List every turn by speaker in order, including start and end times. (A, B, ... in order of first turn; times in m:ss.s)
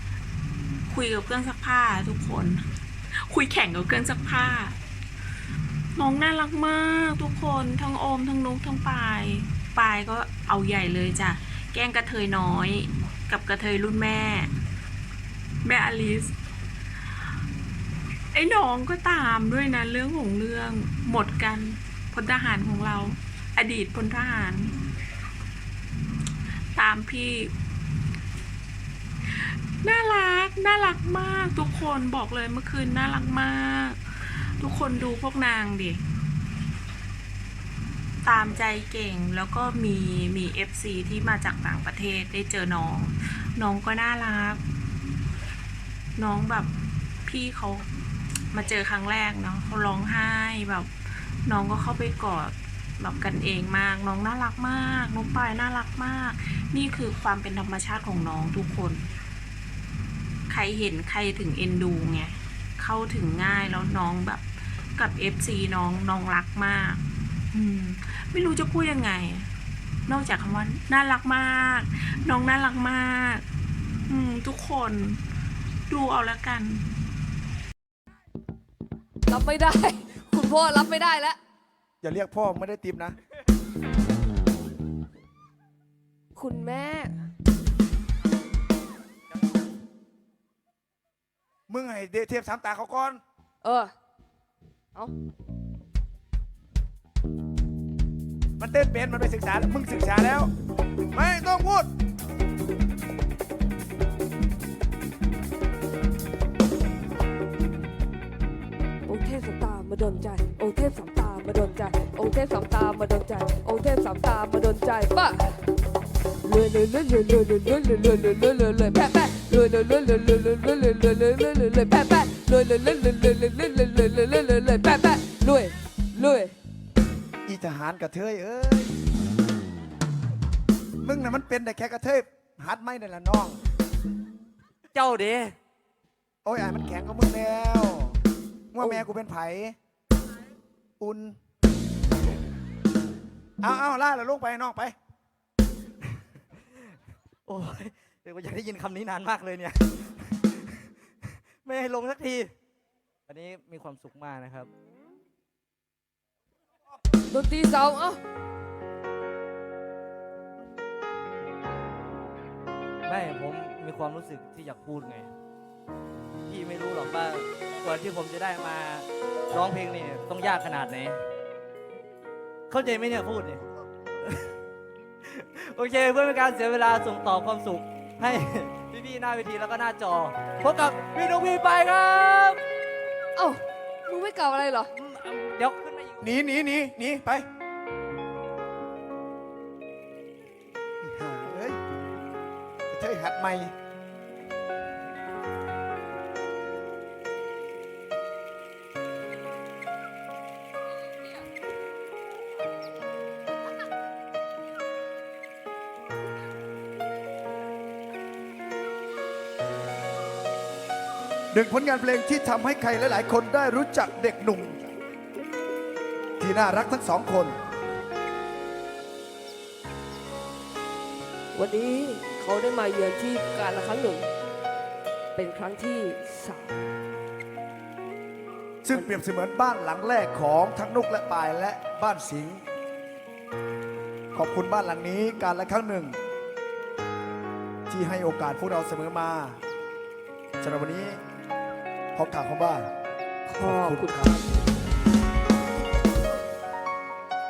0:00.9-0:02.6 A
0:03.3-0:04.8 A
0:06.0-0:14.5 A
0:15.6-0:16.3 A
0:18.3-0:24.8 A
0:26.8-0:27.5 A
0:29.4-0:36.0 A
0:38.2-0:44.6 A
0:46.2-0:46.7 A
0:47.2-0:47.9 A
0:48.5-0:50.9 A
0:51.5-0:59.0 A
1:00.5-1:04.4 A
1:05.0-1:09.5 A
1:10.1-1:13.4 A
1:14.1-1:15.2 A
1:15.9-1:16.9 A
1:19.3-1:21.4 B
1:22.0-1:23.2 C
1:26.4-1:27.2 B
1:31.7-1:33.2 C
1:33.6-1:33.9 B
1:38.6-1:40.5 C
1:41.1-1:41.9 C
1:49.1-1:55.6 B
1:56.4-2:06.6 B
2:07.5-2:09.0 C
2:11.0-2:13.6 C
2:14.9-2:15.6 D
2:16.4-2:18.2 C
2:18.7-2:19.8 C
2:18.8-2:19.1 D
2:21.0-2:21.4 C
2:23.6-2:25.0 C
2:27.5-2:32.6 D
2:33.3-2:34.7 D
2:37.3-2:38.2 B
2:43.0-2:45.3 D
2:46.5-2:51.2 D
2:52.7-2:53.6 D
2:54.2-2:54.5 D
2:55.2-3:02.6 D
3:03.4-3:04.9 B
3:05.0-3:06.2 D
3:06.2-3:07.5 C
3:11.0-3:11.8 C
3:12.9-3:13.7 C
3:31.5-3:34.9 C
3:36.4-3:37.6 C
3:41.5-3:44.3 B
3:45.4-3:46.9 B
3:48.8-3:52.6 C
3:54.3-3:56.2 C
3:57.9-3:59.6 C
4:00.6-4:01.2 C
4:02.2-4:02.9 C
4:03.5-4:04.7 B
4:03.6-4:04.4 C